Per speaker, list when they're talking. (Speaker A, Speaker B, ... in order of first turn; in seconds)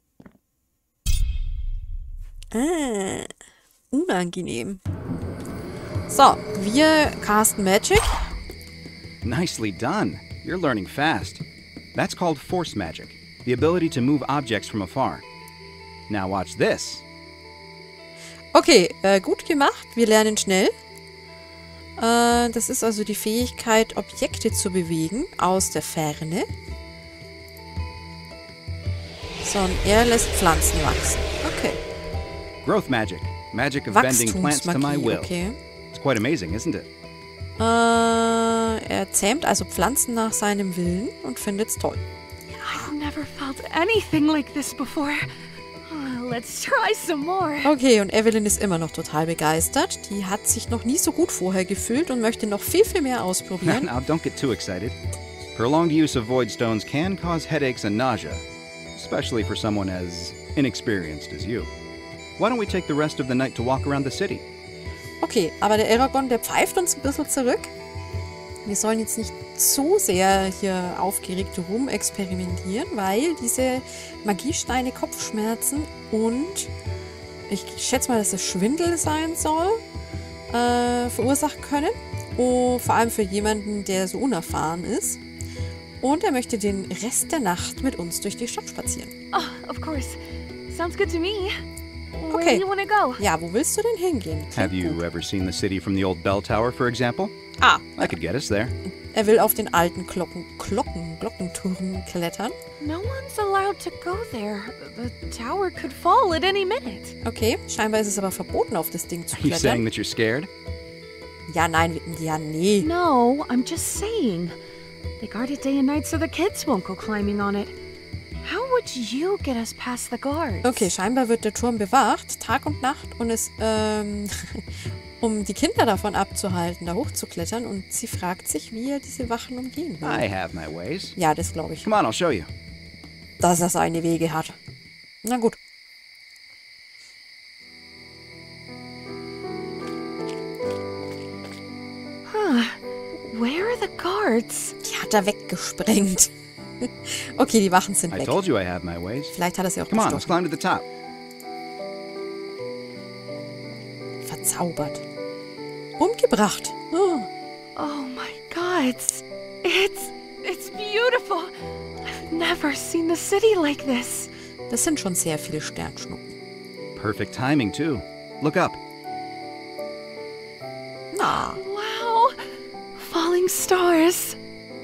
Speaker A: 2.5-3.3, 3.9-4.8, 6.1-8.2, 18.5-20.7, 22.0-26.5, 29.4-31.8, 33.9-35.6, 37.6-42.0, 42.5-42.9, 47.6-53.9, 65.2-67.7, 68.6-76.7, 77.5-79.8, 80.5-85.2, 86.0-89.1, 92.3-92.6, 93.2-95.0, 97.6-98.2, 99.1-102.5, 107.2-109.8, 111.5-112.9, 120.6-124.7, 125.2-130.3, 131.2-131.9, 133.4-134.6, 135.2-135.6, 144.8-148.4, 149.3-150.3, 154.2-155.0, 156.0-157.3, 164.7-166.3, 171.1-171.6
Speaker B: 9.2-11.4, 11.9-15.2, 16.1-17.0, 32.6-35.3, 35.9-36.9, 53.6-55.0, 55.5-61.7, 62.4-64.5, 94.5-97.3, 98.0-98.7, 109.3-110.5, 130.0-131.2, 131.8-132.5, 148.1-149.3, 149.9-150.8, 166.9-168.8
Speaker C: 42.8-45.2, 45.9-47.7, 89.3-91.5, 92.2-93.2, 102.8-107.2, 112.8-114.6, 115.2-117.8, 118.4-120.9, 142.3-144.8, 157.8-161.5, 162.0-164.3, 171.2-172.3, 172.9-174.4